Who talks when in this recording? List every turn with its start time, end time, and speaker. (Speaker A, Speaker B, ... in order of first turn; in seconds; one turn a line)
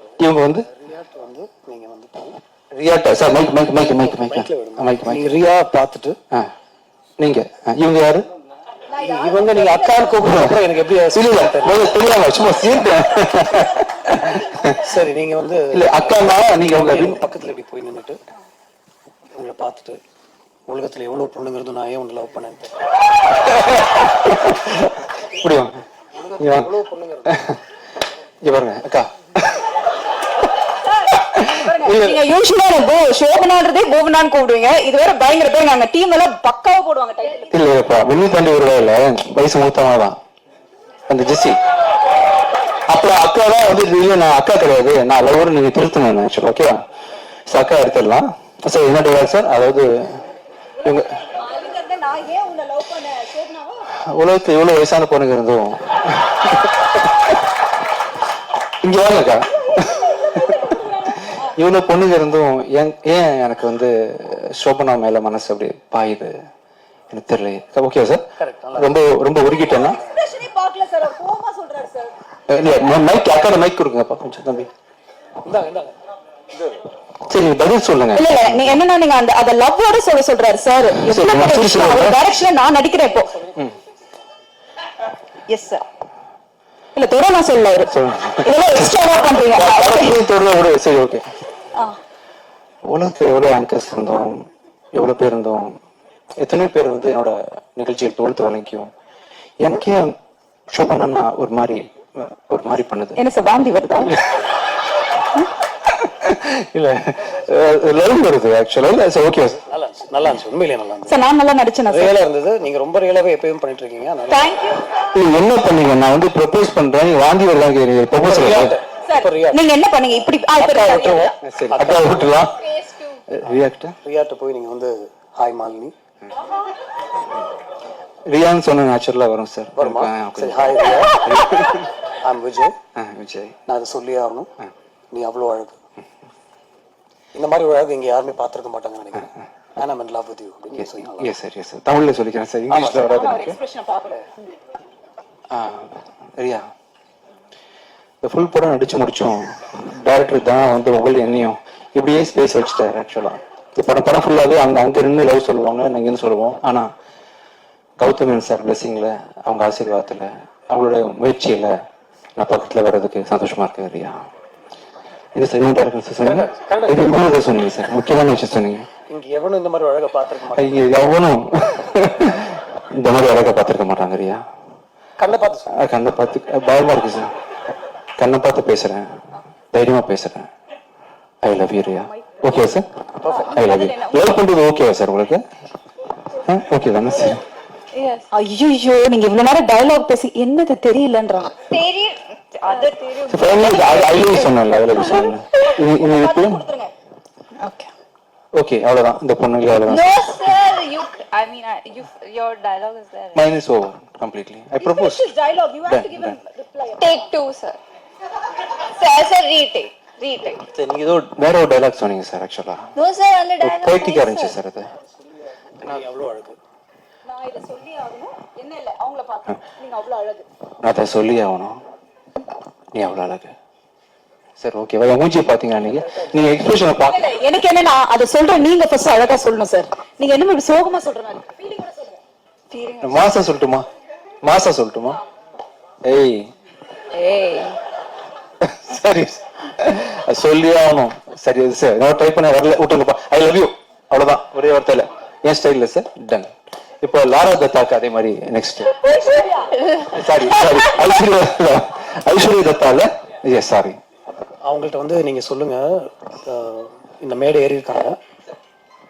Speaker A: 0.2-0.7
Speaker B: 0.7-2.4
Speaker A: 2.7-5.3
Speaker B: 3.8-6.2
Speaker A: 7.2-8.2
Speaker C: 8.9-10.2
Speaker B: 8.9-11.9
Speaker A: 10.2-10.6
Speaker A: 11.1-14.8
Speaker B: 14.8-18.2
Speaker A: 15.7-17.2
Speaker B: 19.3-20.0
Speaker B: 20.7-22.7
Speaker A: 23.4-25.7
Speaker B: 26.1-27.4
Speaker A: 26.4-26.7
Speaker A: 27.3-27.6
Speaker A: 28.4-29.1
Speaker C: 31.1-37.5
Speaker A: 31.4-32.2
Speaker A: 37.5-40.1
Speaker A: 41.1-41.6
Speaker A: 42.9-46.8
Speaker A: 47.5-50.2
Speaker A: 50.8-51.1
Speaker C: 51.3-53.8
Speaker A: 54.0-57.3
Speaker A: 58.8-66.3
Speaker C: 60.2-61.5
Speaker A: 67.1-68.2
Speaker B: 68.4-69.0
Speaker A: 68.8-70.0
Speaker C: 69.6-72.1
Speaker B: 69.8-70.3
Speaker A: 72.5-74.7
Speaker B: 75.4-75.9
Speaker A: 77.3-78.8
Speaker C: 78.1-83.3
Speaker A: 81.0-82.2
Speaker C: 85.5-85.8
Speaker C: 86.9-90.2
Speaker A: 87.9-91.2
Speaker A: 92.8-95.7
Speaker A: 96.4-98.9
Speaker A: 99.6-100.1
Speaker A: 100.7-103.2
Speaker C: 103.2-104.2
Speaker A: 105.9-109.6
Speaker B: 109.6-111.2
Speaker C: 111.1-112.1
Speaker B: 111.9-114.6
Speaker C: 114.3-114.8
Speaker A: 115.1-118.8
Speaker B: 118.2-119.6
Speaker C: 119.1-121.3
Speaker B: 120.6-122.3
Speaker A: 121.4-122.7
Speaker A: 123.3-124.0
Speaker B: 123.5-125.9
Speaker A: 128.3-131.9
Speaker B: 129.8-131.4
Speaker B: 132.2-132.7
Speaker A: 132.9-133.6
Speaker B: 133.7-134.5
Speaker B: 135.1-135.8
Speaker B: 137.3-141.3
Speaker A: 141.0-143.6
Speaker C: 142.8-144.3
Speaker A: 145.5-146.7
Speaker A: 148.2-156.9
Speaker A: 158.0-161.7
Speaker A: 162.4-164.2
Speaker A: 165.3-168.9
Speaker B: 166.2-167.2
Speaker B: 169.1-171.1
Speaker A: 170.5-174.4
Speaker B: 175.2-175.7
Speaker A: 175.7-177.3
Speaker A: 178.2-179.1
Speaker A: 179.7-180.5
Speaker A: 181.4-182.8
Speaker C: 182.1-182.5
Speaker B: 183.2-183.6
Speaker C: 183.2-184.4
Speaker A: 183.5-185.4
Speaker A: 186.4-187.4
Speaker D: 187.9-188.3
Speaker C: 188.3-191.7
Speaker D: 191.6-195.4
Speaker C: 192.6-193.4
Speaker A: 193.3-196.7
Speaker C: 194.9-196.9
Speaker C: 197.6-197.9
Speaker A: 198.5-200.5
Speaker D: 199.9-203.4
Speaker A: 203.3-205.3
Speaker C: 204.8-207.3
Speaker A: 205.8-206.4
Speaker D: 207.0-207.8
Speaker D: 209.0-210.6
Speaker A: 210.7-212.9
Speaker D: 212.9-214.6
Speaker A: 213.6-214.9
Speaker B: 215.8-216.6
Speaker C: 217.2-220.4
Speaker A: 220.8-221.8
Speaker A: 222.9-223.5
Speaker A: 224.6-227.3
Speaker C: 227.1-232.2
Speaker D: 232.7-233.2
Speaker A: 233.0-233.8
Speaker A: 234.4-235.2
Speaker A: 236.1-236.4
Speaker D: 237.1-237.8
Speaker A: 238.6-249.0
Speaker C: 249.2-249.5
Speaker A: 249.9-254.0
Speaker B: 254.6-258.2